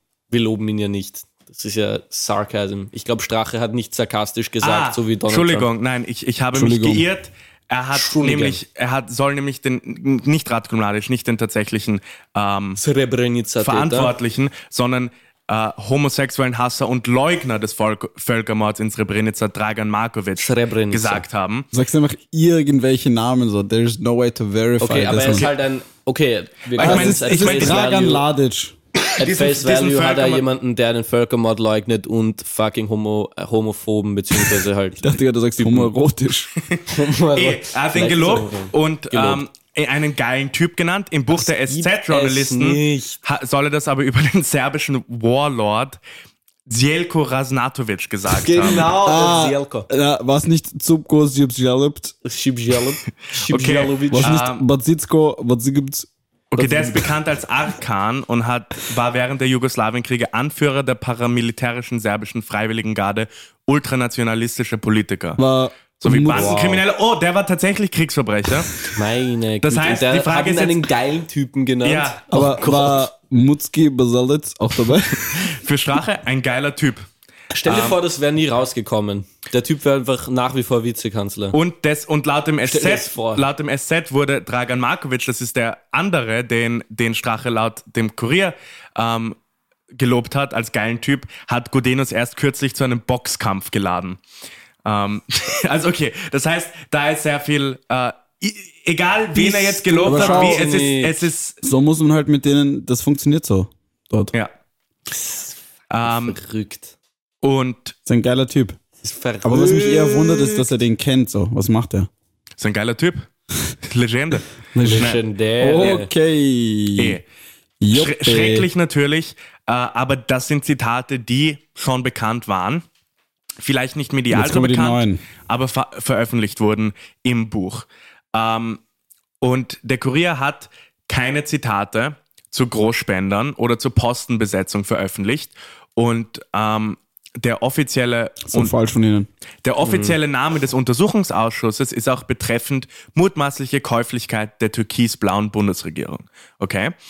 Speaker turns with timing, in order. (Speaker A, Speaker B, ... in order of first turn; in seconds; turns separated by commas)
Speaker A: 0.3-5.7, Speaker B: 4.6-12.8, Speaker C: 6.5-7.1, Speaker A: 7.9-8.6, Speaker A: 12.8-14.1, Speaker B: 13.6-21.7, Speaker A: 20.4-21.2, Speaker C: 21.7-25.5, Speaker A: 24.8-28.3, Speaker B: 26.8-27.8, Speaker C: 26.8-28.8, Speaker B: 29.1-30.4, Speaker A: 29.2-35.1, Speaker C: 35.0-36.5, Speaker A: 35.6-35.9, Speaker B: 36.6-46.0, Speaker A: 36.9-39.4, Speaker A: 41.3-43.2, Speaker B: 46.7-48.9, Speaker A: 48.3-49.9, Speaker C: 48.9-52.2, Speaker A: 52.2-54.4, Speaker B: 53.4-54.6, Speaker C: 54.1-56.1, Speaker B: 56.5-65.4, Speaker A: 56.6-57.0, Speaker C: 65.4-66.7, Speaker B: 66.0-68.9, Speaker A: 66.3-66.8, Speaker A: 68.9-73.1, Speaker B: 69.6-70.9, Speaker B: 71.8-72.3, Speaker C: 72.3-75.5, Speaker B: 75.3-77.1, Speaker A: 77.5-81.6, Speaker B: 77.7-78.0, Speaker B: 81.5-89.4, Speaker A: 82.7-83.5, Speaker B: 89.9-94.2, Speaker B: 94.8-101.6, Speaker A: 99.3-101.2, Speaker C: 100.1-100.7, Speaker C: 101.6-104.3, Speaker A: 105.1-106.9, Speaker B: 105.9-106.4, Speaker B: 107.4-108.0, Speaker C: 108.1-108.8, Speaker A: 109.0-110.7, Speaker C: 109.4-112.1, Speaker B: 112.6-113.3, Speaker B: 113.8-115.2, Speaker C: 114.8-117.2, Speaker A: 114.8-116.1, Speaker B: 117.0-117.2, Speaker C: 117.8-118.7, Speaker B: 117.9-122.8, Speaker B: 123.6-128.8, Speaker C: 124.3-125.2, Speaker B: 129.4-138.7, Speaker C: 138.5-139.3, Speaker B: 139.6-146.9, Speaker A: 139.8-140.2